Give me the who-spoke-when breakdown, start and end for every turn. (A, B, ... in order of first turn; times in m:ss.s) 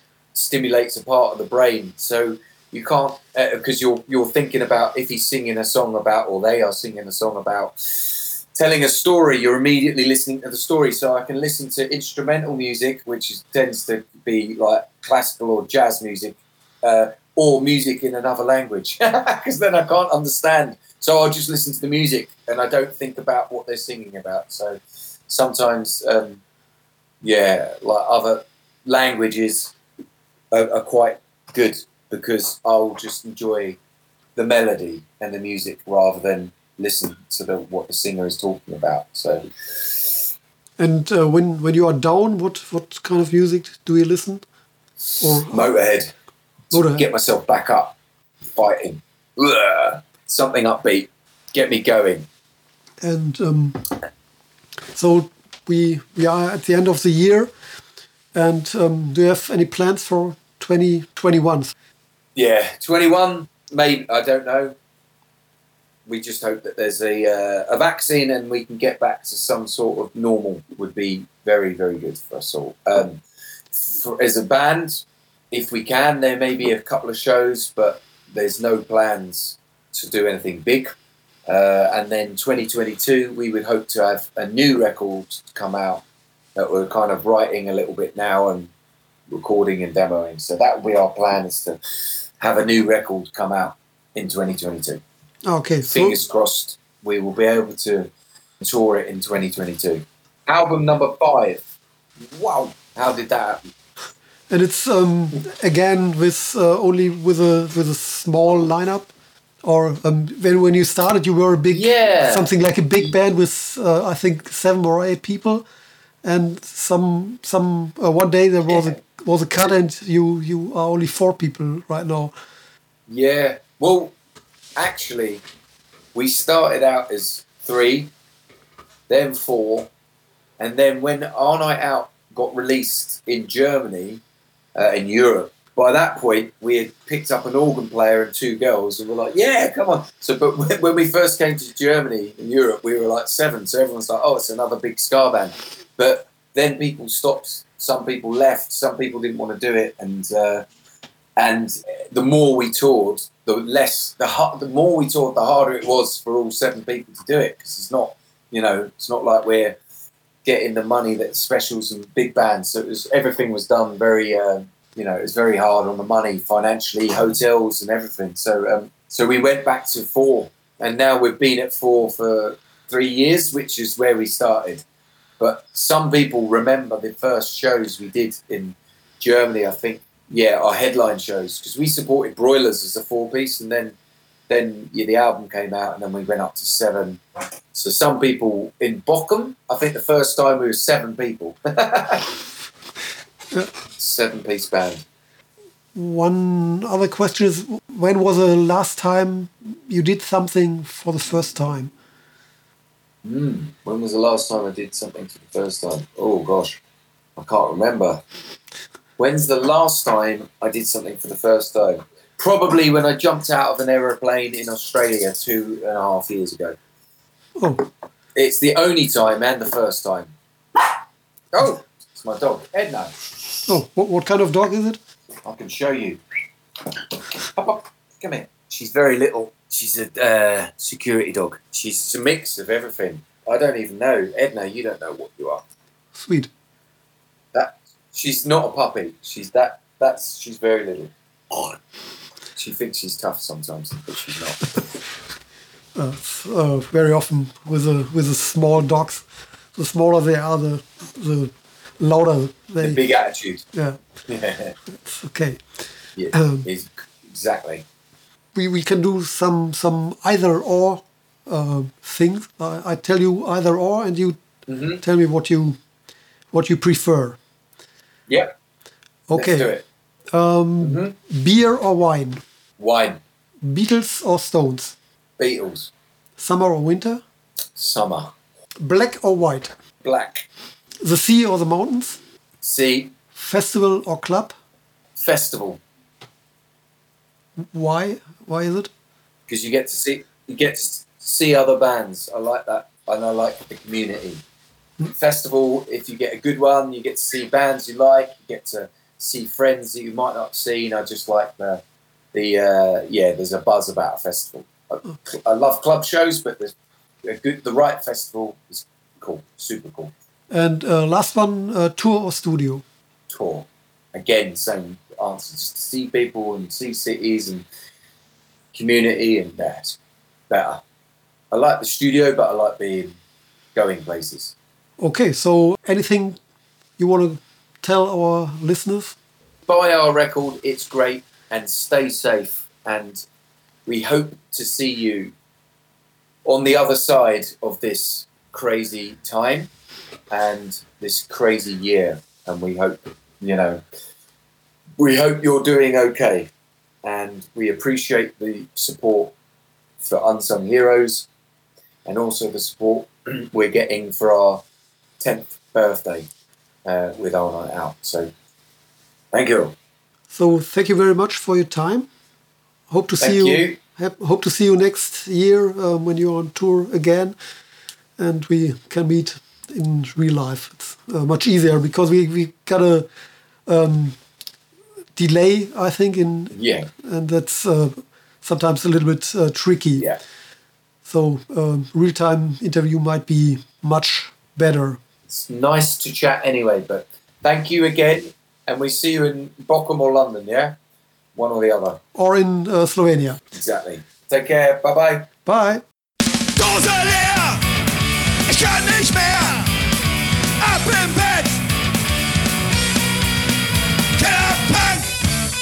0:00.3-0:26.4 A
0:27.2-0:29.7 A
0:30.5-0:33.8 A
0:34.4-0:40.2 A
0:40.8-0:44.4 B
0:45.2-0:45.7 B
0:45.2-0:46.1 A
0:46.7-0:48.0 A
0:46.7-0:47.0 B
0:48.5-0:52.3 A
0:53.0-0:53.8 B
0:54.9-0:57.5 B
0:58.4-1:01.7 B
1:02.3-1:04.7 A
1:06.0-1:20.9 A
1:21.5-1:26.0 A
1:26.6-1:28.7 A
1:29.3-1:31.8 A
1:32.4-1:35.0 A
1:35.5-1:36.2 B
1:35.9-1:41.6 A
1:42.2-1:43.6 A
1:44.5-1:49.1 B
1:49.6-1:55.6 B
1:51.7-1:53.1 A
1:56.2-2:02.3 B
1:58.7-1:59.0 A
2:03.1-2:04.1 A
2:04.8-2:05.4 A
2:06.1-2:08.1 A
2:09.1-2:09.9 A
2:10.6-2:14.2 A
2:14.8-2:30.7 A
2:31.4-2:39.8 A
2:40.4-2:54.8 A
2:55.4-3:04.0 A
3:04.5-3:07.2 A
3:07.7-3:12.4 A
3:14.0-3:15.0 A
3:16.0-3:21.9 B
3:23.2-3:26.8 A
3:27.4-3:28.2 A
3:29.2-3:36.8 A
3:37.6-3:37.8 B
3:38.4-3:40.8 A
3:41.5-3:43.1 A
3:43.7-3:45.0 B
3:45.4-3:46.2 A
3:47.1-3:55.6 A
3:56.1-3:56.5 B
3:57.5-4:01.8 A
4:02.6-4:04.7 A
4:06.0-4:13.0 B
4:12.8-4:13.7 A
4:13.7-4:14.0 B
4:14.3-4:14.7 A
4:14.9-4:15.6 B
4:16.2-4:17.8 A
4:16.3-4:16.7 B
4:18.6-4:24.4 B
4:24.7-4:25.0 A
4:25.0-4:25.8 B
4:26.5-4:27.4 B
4:29.3-4:29.7 B
4:29.3-4:29.8 A
4:30.3-4:32.4 B
4:30.8-4:31.1 A
4:32.8-4:33.2 A
4:33.6-4:35.0 B
4:35.4-4:35.9 A
4:36.4-4:37.2 B
4:37.7-4:38.3 A
4:38.8-4:39.7 B
4:40.0-4:40.5 A
4:41.0-4:42.2 B
4:42.6-4:43.1 A
4:43.3-4:44.6 B
4:45.2-4:45.8 A
4:47.6-4:48.9 B
4:49.5-4:54.4 A
4:55.1-5:01.8 A
5:02.3-5:10.1 A
5:10.5-5:12.8 B
5:13.3-5:17.6 A
5:18.7-5:20.0 A
5:20.5-5:20.8 A
5:21.5-5:23.2 A
5:23.7-5:24.6 A
5:25.0-5:26.4 B
5:27.0-5:29.2 B
5:29.7-5:33.2 A
5:33.9-5:35.3 A
5:36.4-5:39.7 A
5:40.3-5:43.8 A
5:45.0-5:46.5 A
5:47.0-5:49.3 A
5:50.0-5:51.3 A
5:52.0-5:54.6 A
5:55.2-5:56.3 A
5:56.9-5:58.3 A
5:59.3-5:59.7 A
6:00.3-6:02.1 B
6:02.9-6:07.4 B
6:03.2-6:03.8 A
6:08.2-6:13.1 B
6:13.7-6:14.2 B
6:15.2-6:20.1 B
6:16.5-6:16.9 A
6:21.0-6:25.0 B
6:25.3-6:30.8 A
6:31.3-6:32.0 A
6:32.1-6:33.4 B
6:33.5-6:35.3 A
6:35.4-6:35.8 B
6:36.6-6:37.8 C
6:38.5-6:39.8 C
6:40.6-6:41.7 C
6:44.2-6:45.1 C